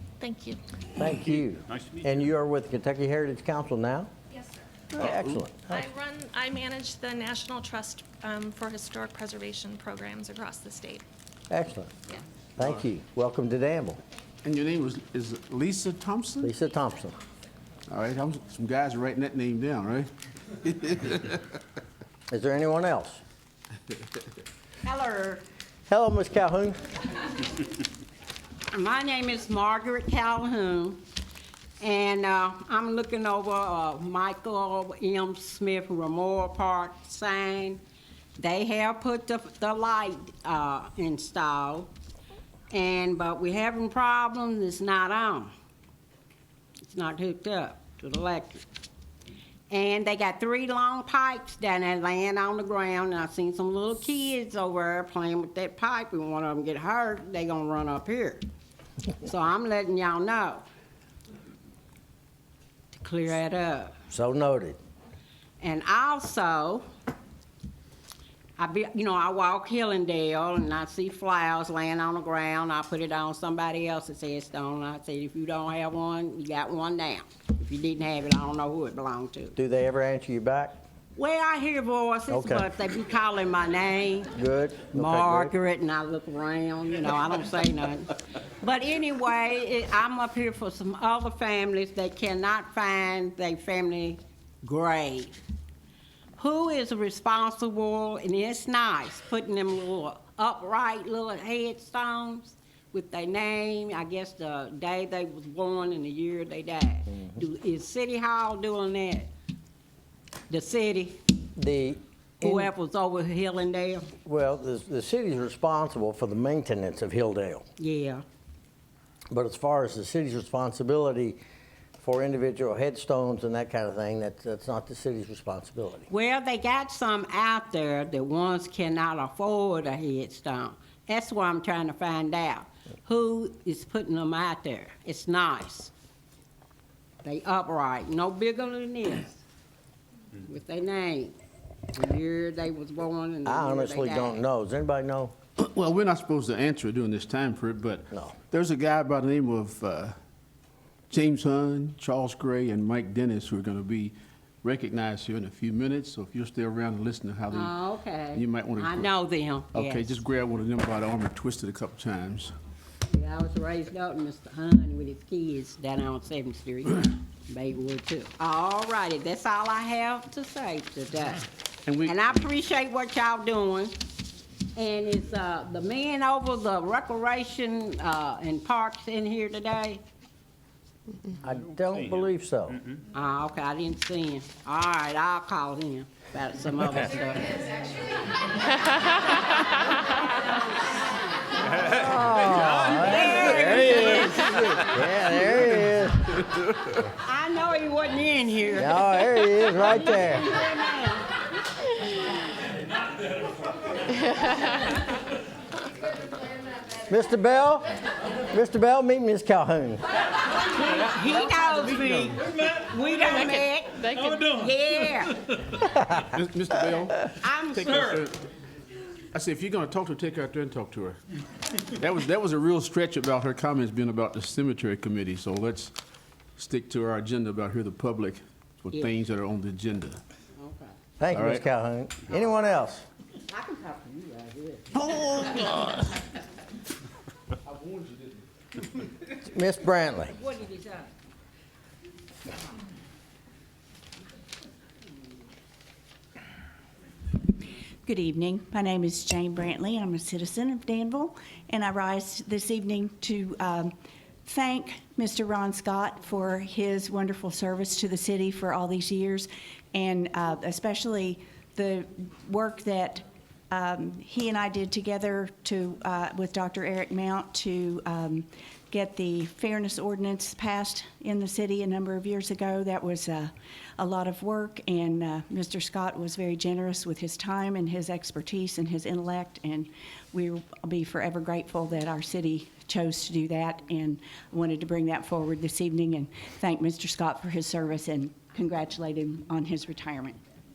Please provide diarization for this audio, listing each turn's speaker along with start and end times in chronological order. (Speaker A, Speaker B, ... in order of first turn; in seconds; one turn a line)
Speaker A: 0.2-0.6
Speaker B: 1.0-4.1
Speaker B: 4.9-5.8
Speaker A: 5.6-11.0
Speaker B: 11.5-11.9
Speaker B: 12.6-14.0
Speaker C: 14.4-16.5
Speaker B: 16.4-17.1
Speaker C: 17.9-20.1
Speaker C: 20.6-21.4
Speaker B: 22.3-23.2
Speaker D: 24.8-25.4
Speaker B: 25.9-26.8
Speaker D: 28.7-31.0
Speaker D: 31.8-37.8
Speaker D: 38.4-41.9
Speaker D: 42.7-45.5
Speaker D: 46.9-48.6
Speaker D: 49.7-58.5
Speaker D: 59.2-60.7
Speaker D: 62.9-63.9
Speaker B: 64.1-64.8
Speaker D: 65.6-66.8
Speaker D: 68.6-79.5
Speaker B: 79.5-80.8
Speaker D: 81.1-84.3
Speaker B: 82.3-82.7
Speaker B: 84.3-85.5
Speaker D: 84.9-95.4
Speaker D: 96.4-109.3
Speaker D: 110.5-111.2
Speaker B: 111.5-112.7
Speaker D: 112.4-114.1
Speaker B: 114.2-117.7
Speaker D: 117.8-118.2
Speaker B: 119.3-121.4
Speaker B: 122.0-126.1
Speaker D: 126.1-135.9
Speaker D: 137.2-139.4
Speaker D: 140.4-141.4
Speaker D: 141.9-144.4
Speaker B: 143.4-145.3
Speaker C: 145.6-150.2
Speaker C: 151.1-157.8
Speaker D: 157.5-160.2
Speaker C: 158.3-159.1
Speaker C: 159.7-162.5
Speaker D: 163.1-171.4
Speaker C: 171.9-172.2
Speaker D: 172.0-173.9
Speaker D: 174.8-180.0
Speaker B: 181.4-182.8
Speaker D: 183.1-187.9
Speaker B: 191.8-196.4
Speaker D: 192.5-194.7
Speaker D: 197.2-201.3
Speaker B: 198.8-200.5
Speaker B: 207.1-207.9
Speaker B: 208.5-210.0
Speaker D: 210.8-215.6
Speaker C: 212.0-212.3
Speaker A: 213.6-214.5
Speaker C: 216.1-218.4
Speaker D: 217.4-218.2
Speaker C: 219.3-221.2
Speaker C: 221.8-225.9
Speaker C: 226.6-230.2
Speaker D: 230.6-231.0
Speaker B: 231.2-233.1
Speaker C: 231.3-231.7
Speaker D: 233.5-235.8
Speaker B: 239.4-240.4
Speaker D: 240.3-241.1
Speaker E: 248.0-253.9
Speaker E: 254.4-290.4